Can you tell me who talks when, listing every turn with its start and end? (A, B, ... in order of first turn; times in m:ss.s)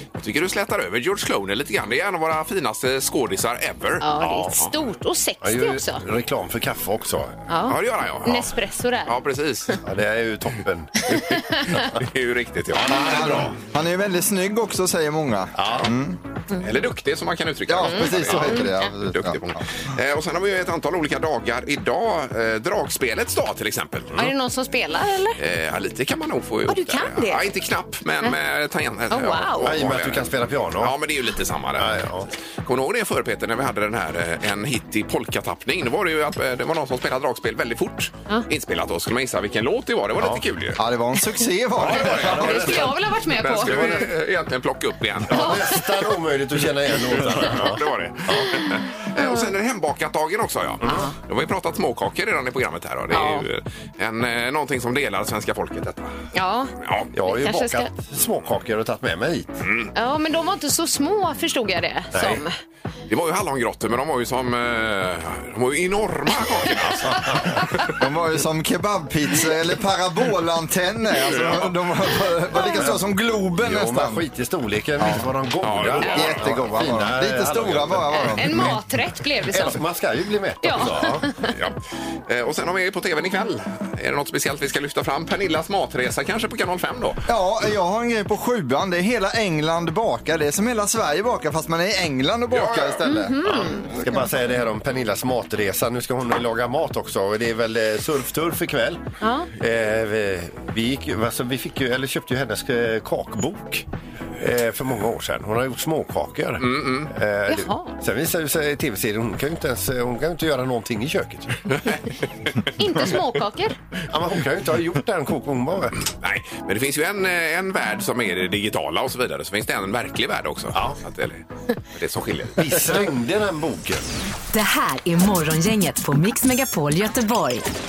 0:00.2-0:04.1 A
0:04.0-0:06.0 B
0:04.2-0:04.6 C
0:05.4-0:07.3 C
0:07.5-0:09.1 B
0:07.7-0:09.8 A
0:09.8-0:11.0 C
0:11.1-0:11.8 B
0:11.1-0:13.5 A
0:12.8-0:13.5 C
0:12.9-0:16.2 D
0:15.6-0:15.9 C
0:16.6-0:24.3 A
0:17.7-0:19.6 D
0:17.9-0:18.7 B
0:24.2-0:25.4 B
0:25.4-0:32.0 A
0:26.7-0:27.4 B
0:29.1-0:29.7 B
0:29.6-0:30.9 C
0:31.8-0:32.3 C
0:32.6-0:40.8 A
0:40.2-0:40.4 C
0:40.8-0:42.7 D
0:41.8-0:45.7 A
0:41.8-0:43.0 C
0:42.3-0:44.0 B
0:43.6-0:44.1 C
0:45.2-0:48.6 C
0:45.3-0:45.9 B
0:47.0-0:56.2 A
0:49.2-0:49.4 B
0:50.8-0:51.1 B
0:53.1-0:53.5 B
0:56.3-0:56.7 B
0:56.8-0:57.1 A
0:57.1-0:59.5 C
0:57.2-0:57.9 B
0:59.6-0:59.9 A
0:59.9-1:02.6 B
1:02.1-1:02.4 C
1:03.1-1:07.9 A
1:06.8-1:07.6 C
1:08.0-1:14.2 D
1:12.5-1:12.8 B
1:13.6-1:18.7 C
1:15.0-1:15.2 D
1:15.6-1:16.4 A
1:16.0-1:18.8 D
1:18.1-1:19.8 B
1:19.5-1:21.3 C
1:20.6-1:21.6 B
1:21.5-1:27.2 A
1:27.3-1:33.7 D
1:32.5-1:33.0 A
1:33.0-1:33.9 B
1:33.9-1:39.0 C
1:39.2-1:39.5 B
1:39.6-1:43.8 C
1:44.4-1:51.8 C
1:46.6-1:47.1 A
1:47.5-1:47.9 B
1:51.7-1:52.0 A
1:52.8-1:53.8 B
1:54.1-1:55.9 C
1:56.0-2:02.9 A
2:02.6-2:04.0 C
2:04.5-2:07.6 E